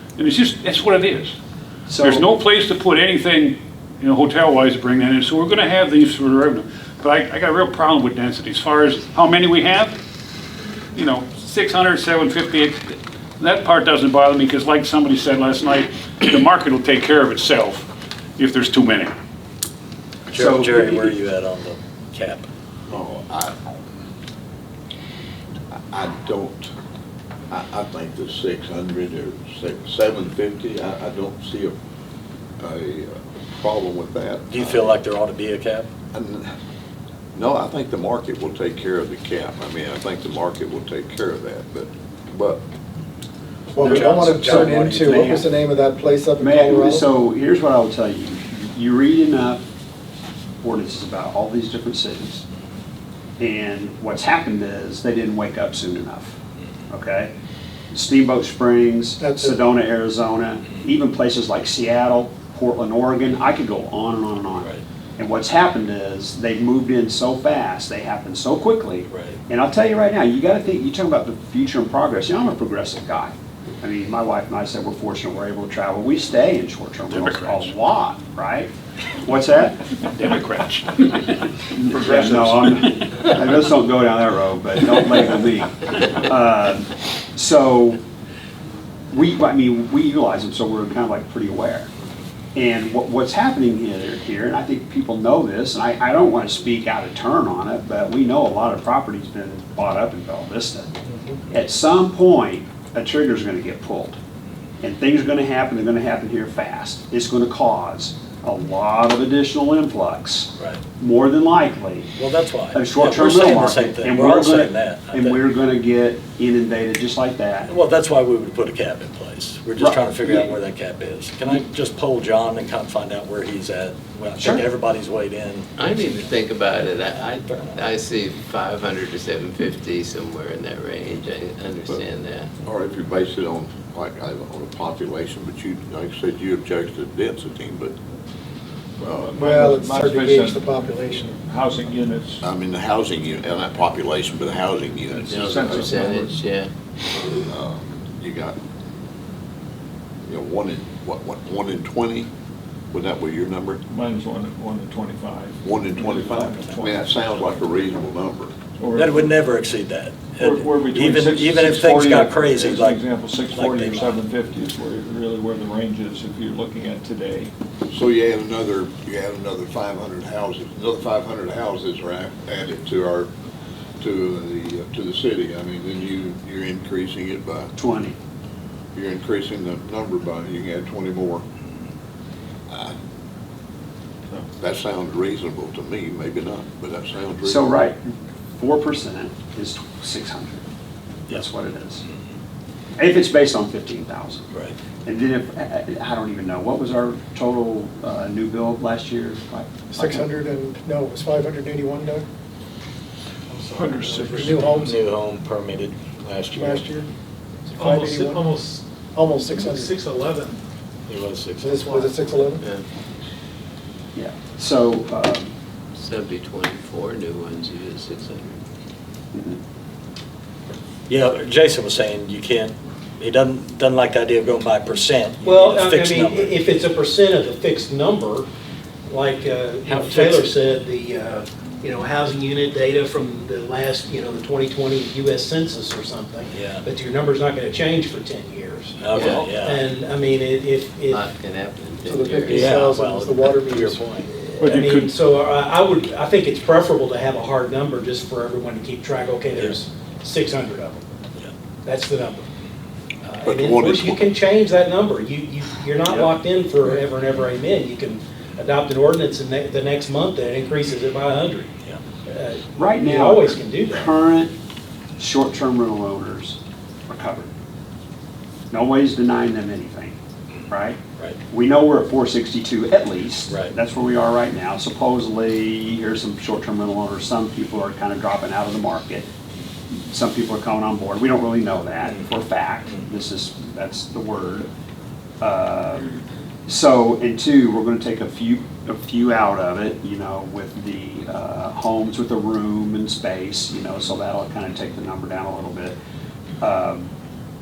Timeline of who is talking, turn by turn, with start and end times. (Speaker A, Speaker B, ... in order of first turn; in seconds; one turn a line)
Speaker A: 0.2-1.3
Speaker B: 1.9-2.2
Speaker A: 2.0-9.9
Speaker A: 10.9-17.9
Speaker A: 18.4-19.1
Speaker C: 20.3-22.4
Speaker B: 20.3-21.1
Speaker D: 22.9-23.6
Speaker D: 25.7-26.7
Speaker D: 27.5-31.8
Speaker D: 32.6-34.9
Speaker C: 34.5-35.9
Speaker D: 36.1-36.5
Speaker D: 37.4-42.6
Speaker E: 43.7-47.1
Speaker C: 43.8-45.4
Speaker B: 43.8-45.4
Speaker B: 46.4-49.6
Speaker B: 50.6-52.4
Speaker B: 53.4-56.4
Speaker B: 56.9-57.3
Speaker B: 57.9-78.7
Speaker E: 59.2-59.6
Speaker C: 69.1-69.4
Speaker A: 77.1-77.7
Speaker B: 79.2-79.8
Speaker A: 80.0-82.9
Speaker B: 81.7-88.0
Speaker B: 89.1-91.9
Speaker B: 92.5-100.9
Speaker B: 101.5-104.2
Speaker B: 104.8-112.1
Speaker C: 112.2-115.4
Speaker B: 112.7-117.7
Speaker C: 117.7-125.7
Speaker B: 119.8-120.5
Speaker B: 124.4-124.7
Speaker F: 125.8-132.5
Speaker C: 127.5-127.8
Speaker D: 132.6-137.9
Speaker G: 139.0-140.8
Speaker D: 139.0-139.5
Speaker E: 139.4-141.4
Speaker G: 141.4-142.4
Speaker D: 142.4-145.9
Speaker G: 145.3-146.4
Speaker F: 145.3-146.7
Speaker D: 147.4-148.6
Speaker D: 150.2-152.3
Speaker D: 152.9-153.8
Speaker G: 153.9-157.2
Speaker D: 155.6-158.5
Speaker G: 158.8-159.3
Speaker C: 158.9-164.2
Speaker G: 160.4-167.5
Speaker D: 167.9-173.3
Speaker D: 174.0-177.7
Speaker B: 177.8-178.1
Speaker D: 178.9-181.4
Speaker D: 182.7-182.9
Speaker D: 184.6-187.6
Speaker B: 187.4-190.6
Speaker B: 191.3-192.0
Speaker B: 193.0-194.4
Speaker B: 195.0-200.3
Speaker E: 199.9-202.2
Speaker E: 203.5-204.9
Speaker G: 203.7-204.8
Speaker C: 204.7-206.9
Speaker E: 206.5-207.1
Speaker E: 207.8-210.0
Speaker C: 211.1-212.0
Speaker E: 211.6-212.6
Speaker B: 214.1-215.5
Speaker F: 216.0-218.5
Speaker C: 221.1-226.5
Speaker H: 225.4-228.5
Speaker H: 229.1-241.3
Speaker C: 229.9-230.5
Speaker C: 236.5-236.8
Speaker C: 239.0-239.8
Speaker F: 239.2-239.5
Speaker G: 239.2-239.6
Speaker F: 241.1-243.0
Speaker E: 242.0-244.2
Speaker C: 242.5-244.3
Speaker H: 244.3-251.0
Speaker G: 244.6-245.2
Speaker C: 249.5-249.8
Speaker H: 251.8-252.4
Speaker H: 253.2-261.7
Speaker D: 253.4-254.2
Speaker B: 256.1-256.3
Speaker H: 262.3-264.2
Speaker B: 262.8-264.5
Speaker B: 265.2-267.5
Speaker B: 268.7-270.1
Speaker B: 270.7-271.0
Speaker B: 271.5-279.3
Speaker B: 280.1-284.7
Speaker B: 285.4-286.1
Speaker B: 286.7-296.0
Speaker B: 296.6-297.1